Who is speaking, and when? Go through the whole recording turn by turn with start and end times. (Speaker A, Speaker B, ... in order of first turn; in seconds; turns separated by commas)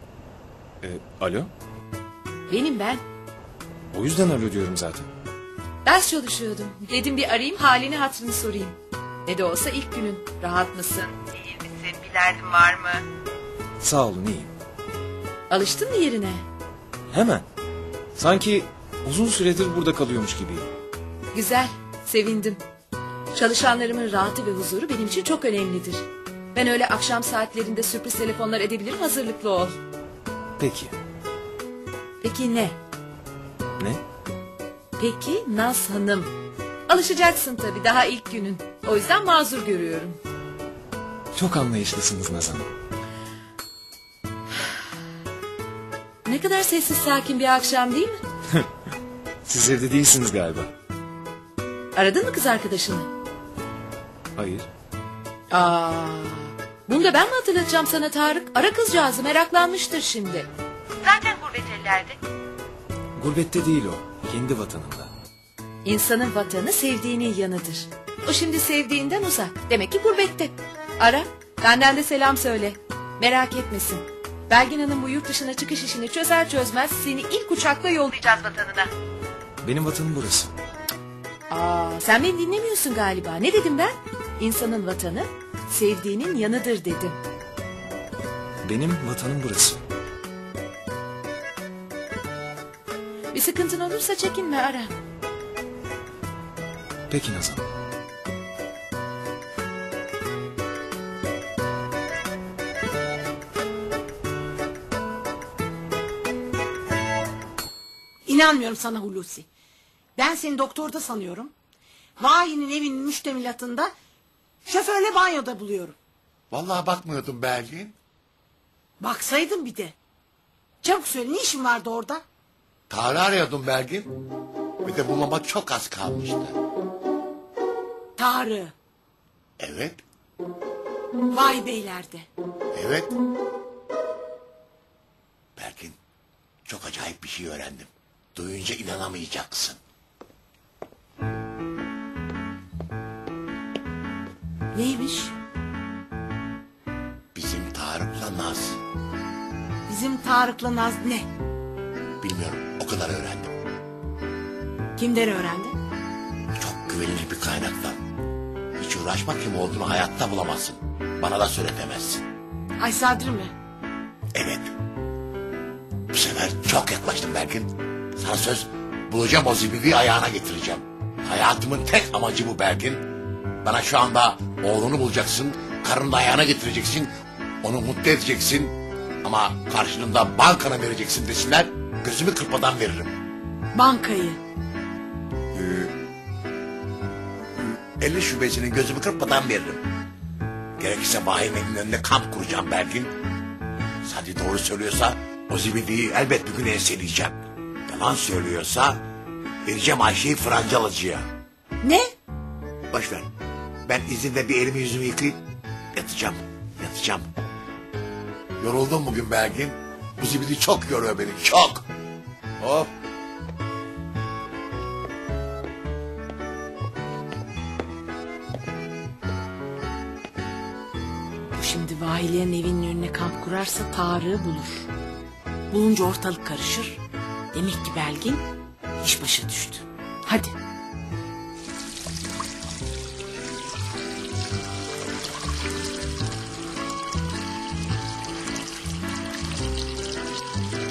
Speaker A: 0.8-1.5, Speaker B: 2.5-3.0, Speaker A: 3.9-5.1, Speaker B: 5.8-13.0, Speaker A: 13.8-14.5, Speaker B: 15.5-16.4, Speaker A: 17.1-17.4, Speaker A: 18.1-20.7, Speaker B: 21.3-22.6, Speaker B: 23.3-29.8, Speaker A: 30.6-30.9, Speaker B: 32.2-32.8, Speaker B: 35.0-36.3, Speaker B: 36.9-40.2, Speaker A: 41.3-42.7, Speaker B: 46.2-48.2, Speaker A: 49.4-50.7, Speaker B: 51.9-53.1, Speaker A: 54.4-54.7, Speaker B: 55.5-60.5, Speaker B: 61.0-62.2, Speaker A: 63.1-65.1, Speaker B: 65.8-78.9, Speaker A: 79.6-80.5, Speaker B: 81.5-87.2, Speaker A: 88.6-89.8, Speaker B: 93.3-94.9, Speaker A: 97.1-97.6, Speaker C: 108.2-109.5, Speaker C: 110.2-111.5, Speaker C: 112.2-113.9, Speaker C: 114.6-116.0, Speaker D: 116.5-118.0, Speaker C: 119.0-119.9, Speaker C: 120.8-122.2, Speaker D: 122.9-124.1, Speaker D: 124.8-126.6, Speaker C: 128.2-128.7, Speaker D: 129.6-130.0, Speaker C: 131.3-132.3, Speaker D: 132.7-133.1, Speaker D: 135.6-136.0, Speaker D: 136.6-139.8, Speaker C: 144.7-145.3, Speaker D: 147.3-148.8, Speaker C: 149.9-151.3, Speaker D: 152.2-153.5, Speaker C: 155.0-155.8, Speaker D: 156.6-158.0, Speaker D: 158.8-162.2, Speaker C: 162.8-163.5, Speaker D: 164.3-164.7, Speaker D: 166.1-173.1, Speaker D: 173.6-177.1, Speaker D: 177.6-183.2, Speaker C: 183.7-184.4, Speaker D: 185.5-185.9, Speaker D: 187.6-189.8, Speaker D: 190.8-193.1, Speaker D: 194.0-199.0, Speaker D: 199.6-201.3, Speaker C: 201.8-202.1, Speaker D: 202.9-203.3, Speaker D: 203.8-205.4, Speaker D: 205.9-207.3, Speaker D: 208.6-211.9, Speaker D: 212.6-212.9, Speaker C: 221.5-224.9, Speaker C: 225.7-227.0, Speaker C: 227.5-228.4, Speaker C: 229.0-230.5